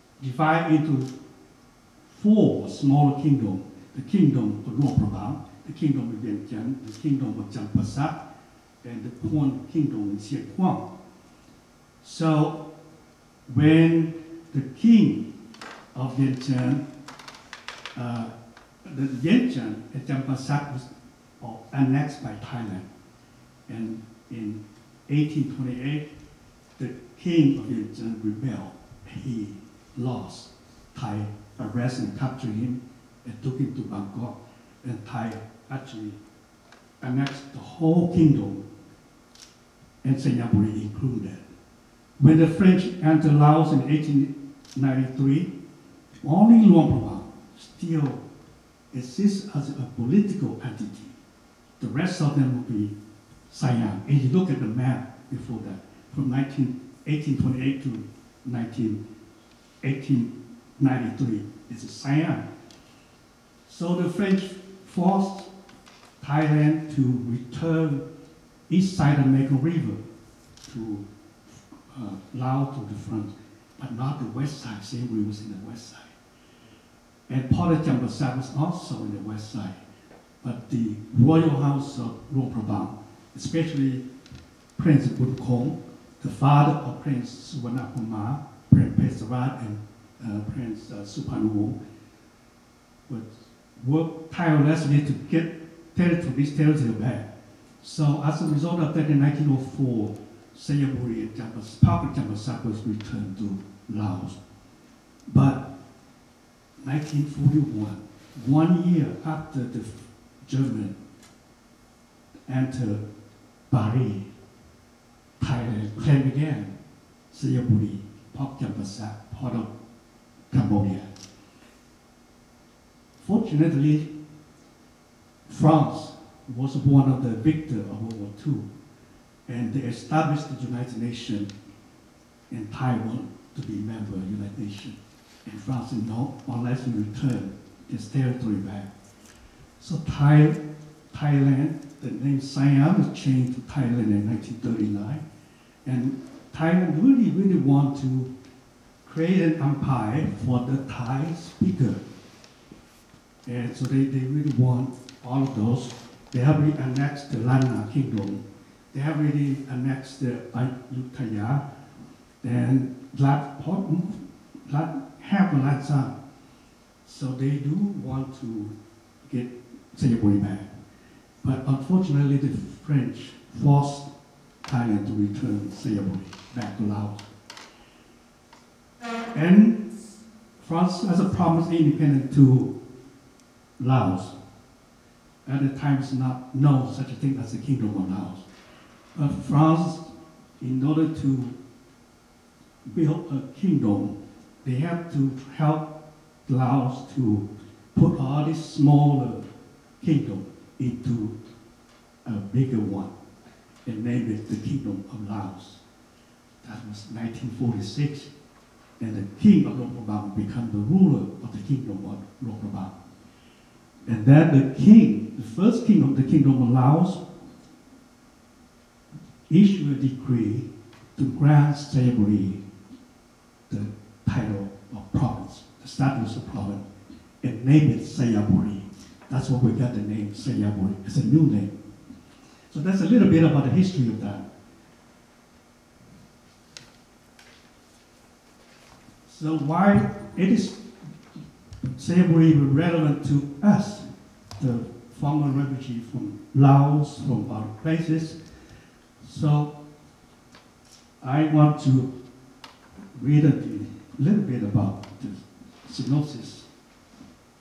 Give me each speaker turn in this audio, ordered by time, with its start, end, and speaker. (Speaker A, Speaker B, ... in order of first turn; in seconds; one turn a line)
Speaker A: 0.2-1.1
Speaker A: 2.1-8.2
Speaker A: 8.8-10.9
Speaker A: 12.0-12.7
Speaker A: 13.5-15.3
Speaker A: 15.9-16.8
Speaker A: 17.9-18.3
Speaker A: 18.9-22.9
Speaker A: 23.7-26.1
Speaker A: 26.8-36.2
Speaker A: 37.0-38.6
Speaker A: 40.0-41.4
Speaker A: 42.2-45.5
Speaker A: 46.2-48.2
Speaker A: 48.9-51.1
Speaker A: 51.8-52.9
Speaker A: 53.5-59.0
Speaker A: 59.8-62.5
Speaker A: 63.7-65.5
Speaker A: 66.2-68.0
Speaker A: 68.7-70.0
Speaker A: 70.7-76.2
Speaker A: 77.3-79.8
Speaker A: 80.4-84.0
Speaker A: 84.8-91.8
Speaker A: 93.1-97.3
Speaker A: 97.8-104.4
Speaker A: 105.3-105.7
Speaker A: 106.8-111.0
Speaker A: 112.5-113.0
Speaker A: 113.7-114.3
Speaker A: 115.4-116.8
Speaker A: 117.3-119.7
Speaker A: 120.5-121.1
Speaker A: 123.2-124.1
Speaker A: 125.5-128.7
Speaker A: 129.5-131.5
Speaker A: 132.5-138.9
Speaker A: 139.8-140.6
Speaker A: 141.1-145.2
Speaker A: 145.8-148.3
Speaker A: 149.0-152.0
Speaker A: 153.5-158.4
Speaker A: 158.9-161.6
Speaker A: 162.4-166.1
Speaker A: 167.1-170.7
Speaker A: 171.4-174.1
Speaker A: 174.7-177.3
Speaker A: 179.3-179.8
Speaker A: 180.6-182.7
Speaker A: 183.8-184.3
Speaker A: 185.5-188.5
Speaker A: 189.2-191.6
Speaker A: 192.9-195.9
Speaker A: 196.5-199.5
Speaker A: 200.0-201.4
Speaker A: 202.3-203.1
Speaker A: 203.9-205.8
Speaker A: 206.6-208.3
Speaker A: 209.0-212.9
Speaker A: 214.1-217.2
Speaker A: 219.5-222.6
Speaker A: 223.7-226.8
Speaker A: 227.4-231.7
Speaker A: 232.7-234.5
Speaker A: 239.3-240.8
Speaker A: 242.0-248.4
Speaker A: 249.2-249.7
Speaker A: 251.2-252.1
Speaker A: 253.2-256.7